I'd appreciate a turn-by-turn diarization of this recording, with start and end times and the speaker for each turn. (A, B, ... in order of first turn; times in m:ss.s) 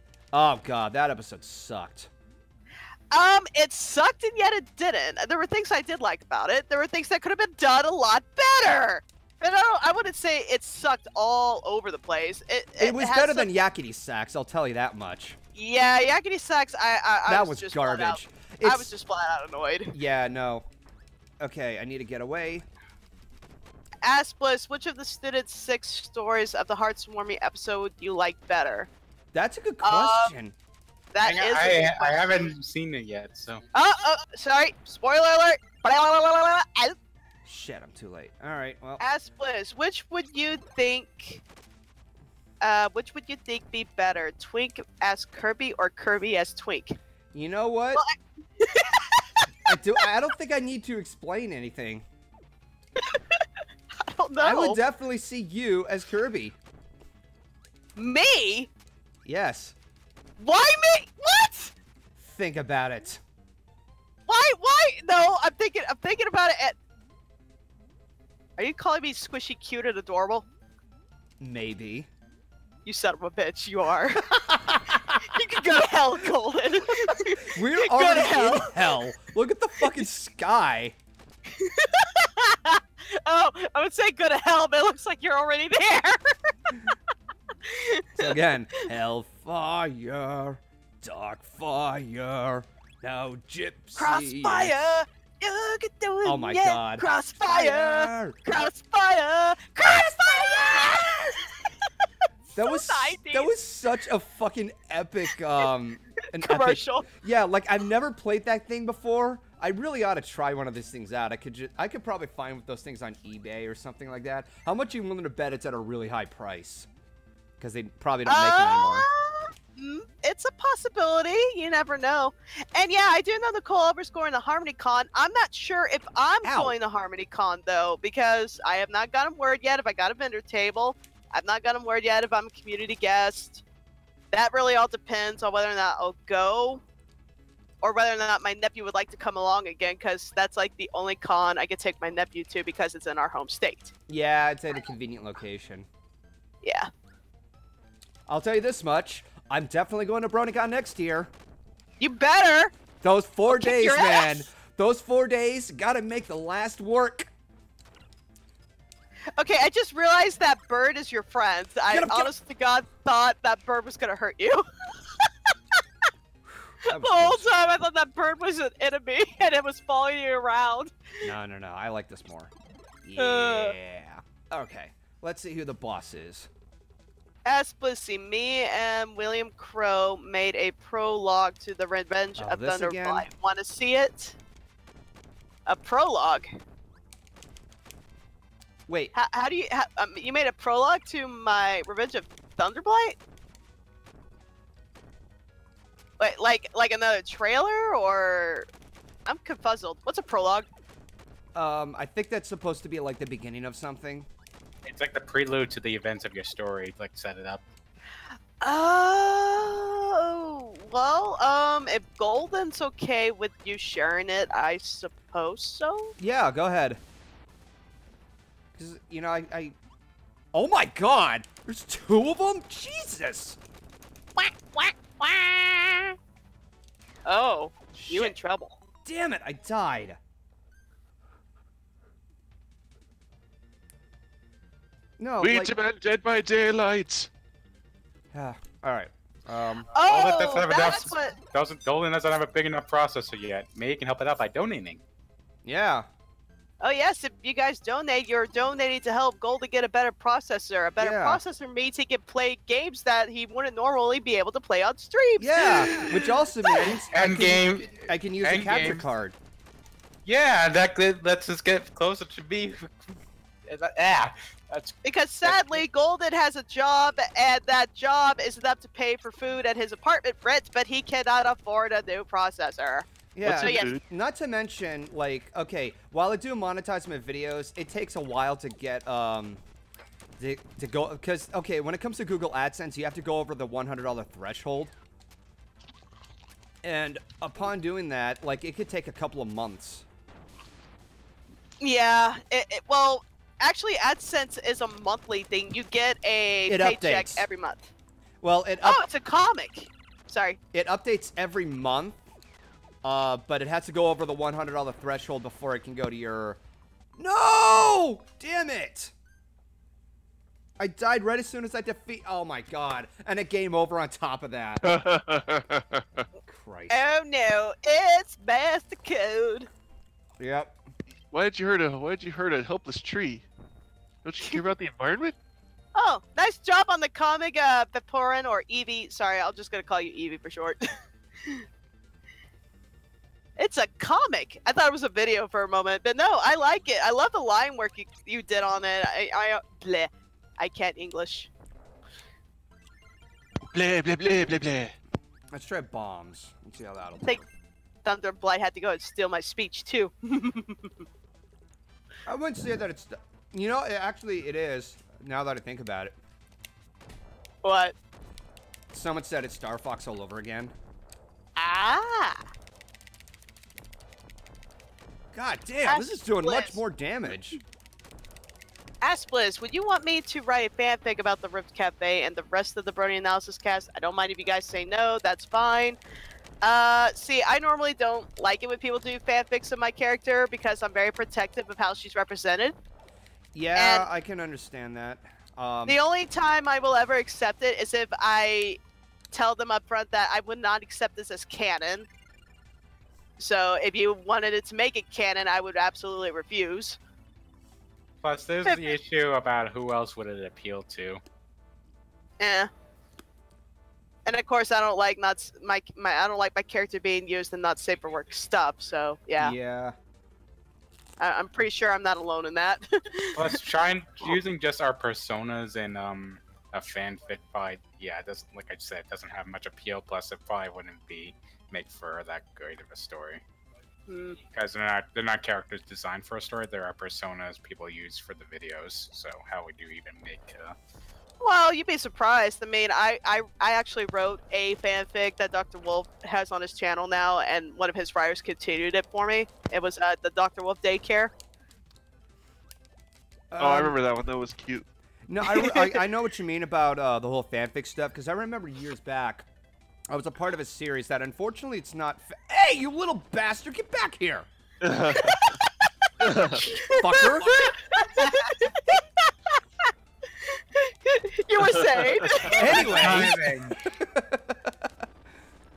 0:00.3-0:02.1 A
0:03.1-0:13.5 B
0:12.8-0:15.4 A
0:15.6-0:19.9 B
0:17.3-0:18.9 A
0:19.9-0:20.7 A
0:21.4-0:22.7 A
0:24.0-0:28.9 B
0:29.3-0:30.6 A
0:29.8-0:30.3 B
0:31.1-0:32.5 B
0:31.2-0:33.6 C
0:33.7-0:37.0 B
0:37.4-0:39.0 A
0:39.0-0:41.4 B
0:42.6-0:47.0 B
0:47.3-0:48.0 A
0:48.0-0:49.5 B
0:49.6-0:52.1 A
0:53.0-0:53.5 B
0:54.0-0:54.8 B
0:54.4-0:56.6 A
0:58.0-0:58.7 B
0:59.2-0:59.8 A
1:00.4-1:01.7 B
1:02.2-1:03.2 A
1:04.3-1:06.8 B
1:08.6-1:10.4 B
1:11.4-1:12.1 A
1:12.8-1:14.5 B
1:14.4-1:15.2 A
1:15.2-1:19.0 B
1:17.0-1:21.0 A
1:21.5-1:26.2 B
1:27.6-1:28.8 B
1:28.2-1:34.8 A
1:34.0-1:41.9 B
1:36.2-1:38.4 A
1:42.5-1:56.9 A
1:42.6-1:43.5 B
1:46.3-1:47.1 B
1:57.6-1:59.1 A
1:58.3-2:13.6 B
2:06.4-2:06.8 A
2:14.3-2:16.8 B
2:17.8-2:23.9 B
2:24.1-2:25.9 A
2:26.6-2:26.9 B
2:28.3-2:31.3 A
2:32.0-2:32.7 B
2:33.0-2:37.3 A
2:33.5-2:34.4 B
2:39.4-2:44.7 B
2:41.9-2:42.3 A
2:45.2-2:45.5 B
2:46.6-2:47.5 A
2:46.8-2:50.9 B
2:51.2-2:52.5 A
2:53.0-2:56.5 A
2:53.2-2:53.7 B
2:57.4-3:04.4 B
3:02.4-3:03.3 A
3:05.7-3:06.5 B
3:08.9-3:09.1 A
3:09.1-3:13.2 B
3:16.2-3:18.7 B
3:19.2-3:20.7 B
3:21.6-3:24.3 A
3:24.8-3:27.6 C
3:28.6-3:36.1 B
3:36.2-3:37.0 A
3:38.8-3:39.8 A
3:40.5-3:43.6 A
3:44.5-3:45.2 B
3:45.2-3:45.6 A
3:47.3-3:48.8 B
3:49.0-3:50.2 A
3:55.2-3:55.7 A
3:55.4-3:57.3 D
3:58.3-3:59.9 A
3:59.9-4:01.4 B
4:00.0-4:05.0 C
4:05.6-4:06.1 A
4:06.8-4:17.0 B
4:11.0-4:11.4 A
4:15.4-4:19.4 A
4:17.1-4:19.0 C
4:20.3-4:23.2 C
4:23.7-4:25.8 C
4:25.0-4:33.9 B
4:33.4-4:39.6 A
4:33.4-4:34.0 D
4:40.4-4:44.9 A
4:46.8-4:50.0 A
4:51.8-4:57.9 B
4:56.7-4:57.5 A
4:58.4-4:59.0 A
4:58.8-5:00.6 B
5:00.7-5:02.2 A
5:03.0-5:06.6 A
5:07.2-5:09.1 A
5:10.8-5:15.0 A
5:14.8-5:16.2 D
5:16.5-5:17.0 A
5:16.9-5:19.7 B
5:20.4-5:20.8 A
5:21.3-5:23.5 D
5:24.2-5:25.4 D
5:26.0-5:30.8 B
5:33.6-5:41.5 B
5:43.7-5:45.0 D
5:45.5-5:47.5 A
5:48.0-5:50.9 B
5:52.3-5:56.2 A
5:57.6-5:58.0 B
5:58.9-6:00.8 A
6:01.6-6:02.4 B
6:05.3-6:07.6 A
6:05.8-6:06.8 B
6:09.0-6:16.0 B
6:16.6-6:22.8 B
6:23.5-6:26.0 A
6:23.8-6:24.1 B
6:25.9-6:28.8 B
6:29.3-6:32.1 B
6:33.4-6:37.0 B
6:38.2-6:41.2 C
6:38.6-6:38.9 B
6:42.4-6:42.7 B
6:44.3-6:49.6 B
6:49.4-6:50.0 A
6:51.2-6:53.4 B
6:53.4-7:03.4 C
7:04.1-7:04.4 B
7:04.5-7:10.8 C
7:11.4-7:21.3 B
7:23.5-7:24.0 A
7:23.6-7:24.9 D
7:25.3-7:29.5 A
7:25.5-7:25.9 D
7:30.1-7:34.5 A
7:34.8-7:35.5 D
7:35.2-7:39.9 B
7:36.2-7:36.7 D
7:36.8-7:37.7 A
7:40.4-7:43.3 B
7:41.6-7:42.7 D
7:42.6-7:44.9 A
7:42.6-7:43.8 C